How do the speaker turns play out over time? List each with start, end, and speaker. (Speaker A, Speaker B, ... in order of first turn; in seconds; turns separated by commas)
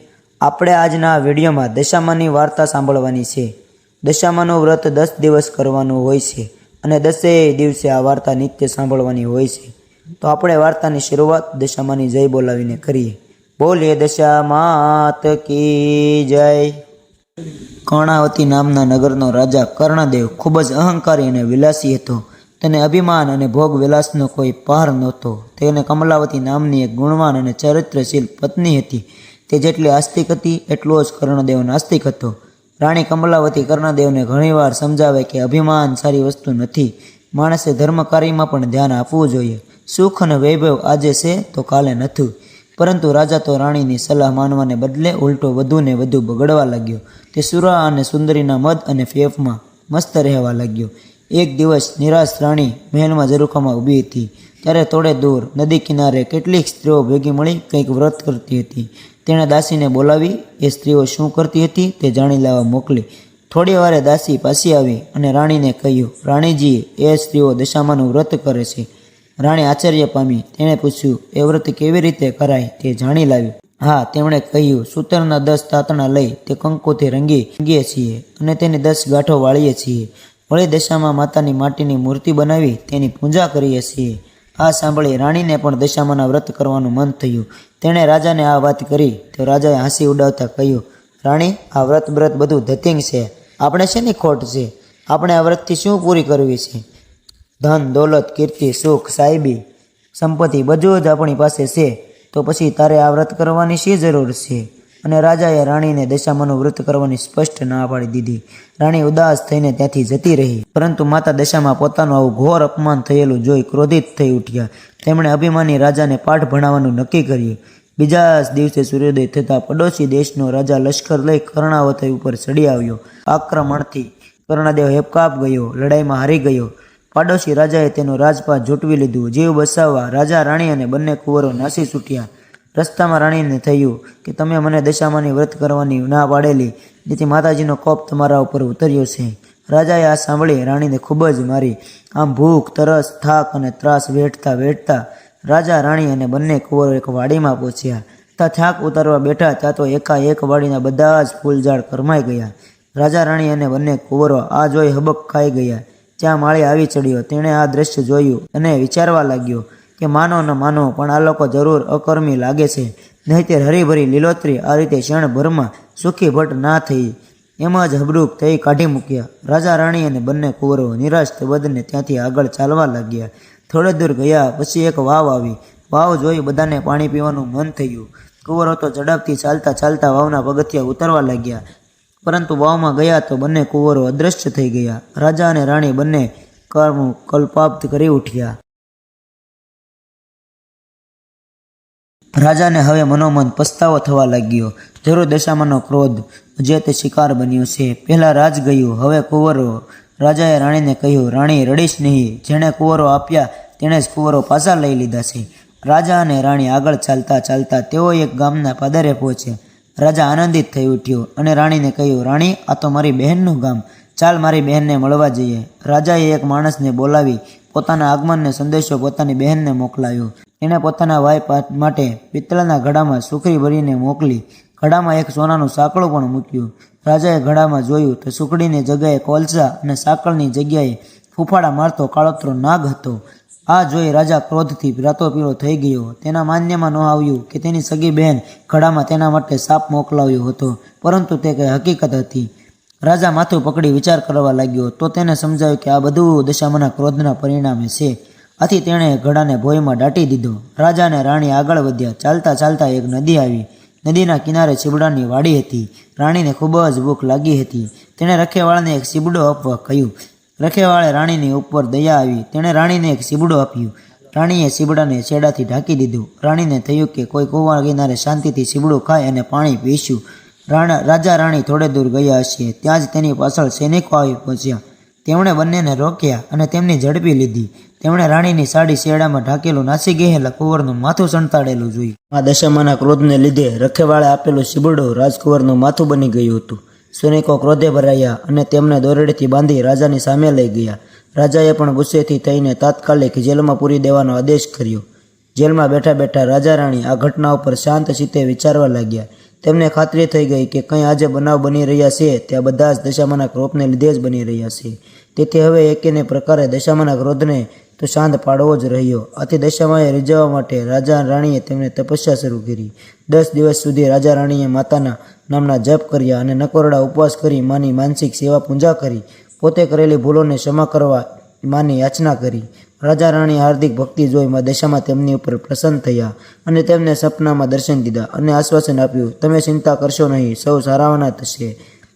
Speaker A: 0.4-3.5, Speaker A: 4.0-16.8, Speaker A: 17.9-68.9, Speaker A: 69.4-96.8, Speaker A: 97.6-99.6, Speaker A: 100.2-181.6, Speaker A: 182.2-188.5, Speaker A: 192.3-242.5, Speaker A: 243.1-295.0, Speaker A: 295.6-331.8